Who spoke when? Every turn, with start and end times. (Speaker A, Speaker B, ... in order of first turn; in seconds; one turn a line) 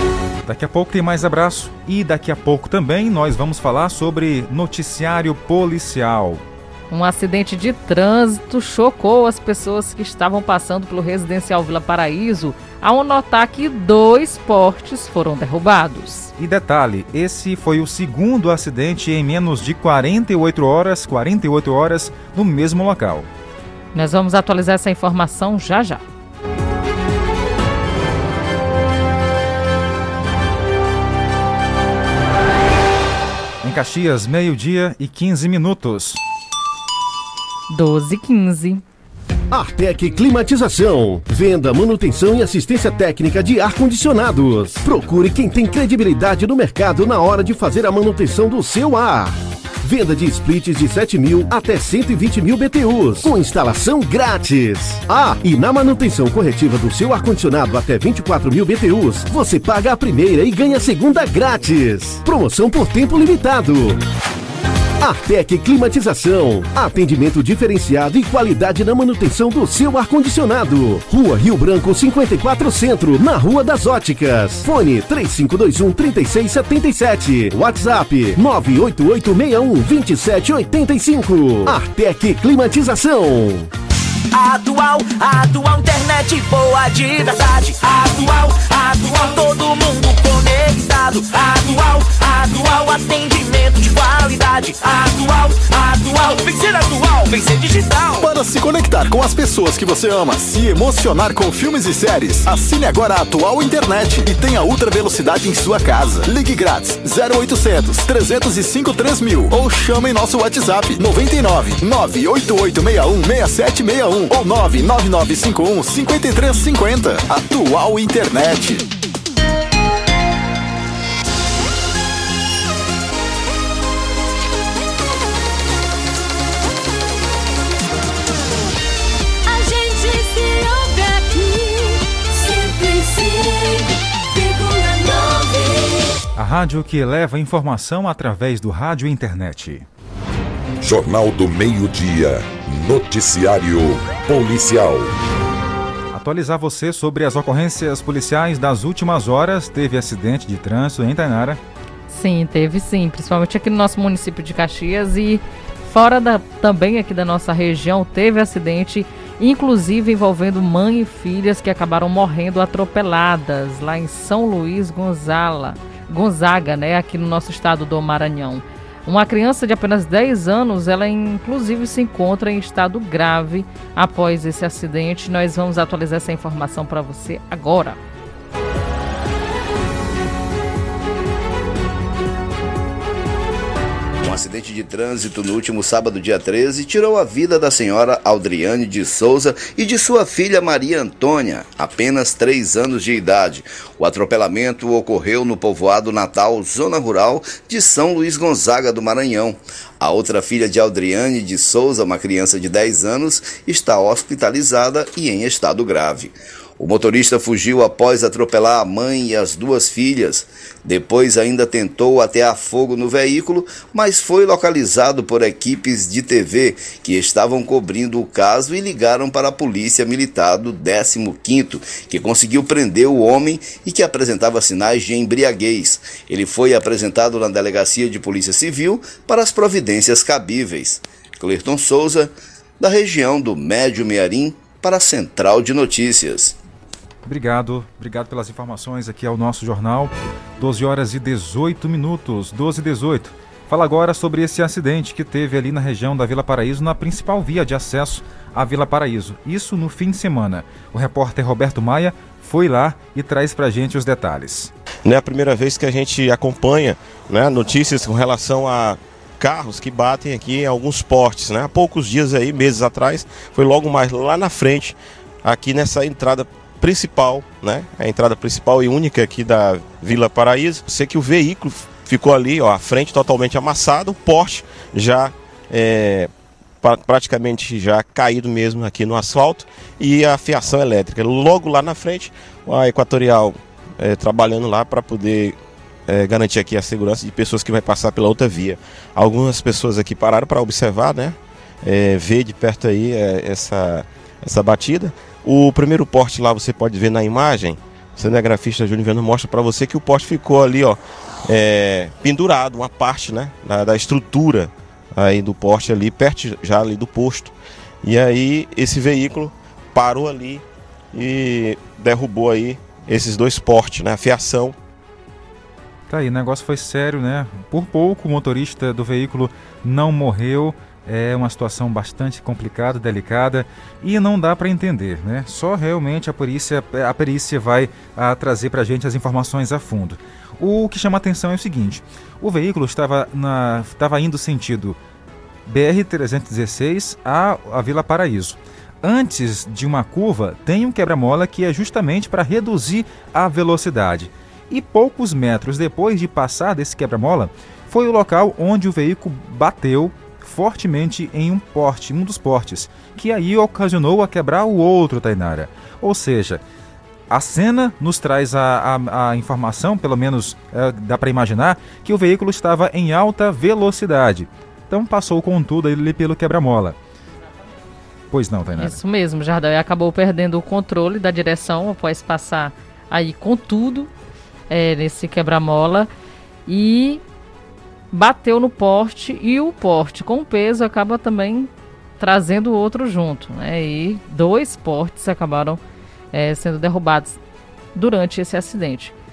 Speaker A: 0.5-6.4
Speaker B: 6.9-16.3
Speaker A: 16.4-23.3
Speaker B: 23.9-26.0
Speaker A: 33.6-36.2
Speaker B: 37.7-38.8
Speaker C: 39.5-64.0
Speaker C: 65.0-83.7
Speaker D: 84.3-98.3
Speaker E: 98.2-118.8
Speaker D: 132.4-133.4
Speaker D: 134.3-135.8
Speaker A: 136.3-139.8
Speaker F: 140.8-145.1
Speaker A: 146.1-151.6
Speaker B: 152.1-178.0
Speaker G: 184.2-236.5
Speaker A: 237.2-254.7
Speaker H: 255.1-276.3
Speaker H: 276.8-285.6
Speaker H: 286.1-314.7
Speaker A: 316.1-335.0
Speaker A: 335.6-356.6
Speaker A: 357.3-366.9
Speaker A: 368.3-369.0
Speaker B: 368.8-374.1
Speaker B: 374.7-376.1
Speaker B: 376.7-377.2
Speaker B: 378.1-385.8
Speaker B: 386.3-387.4
Speaker B: 387.9-389.1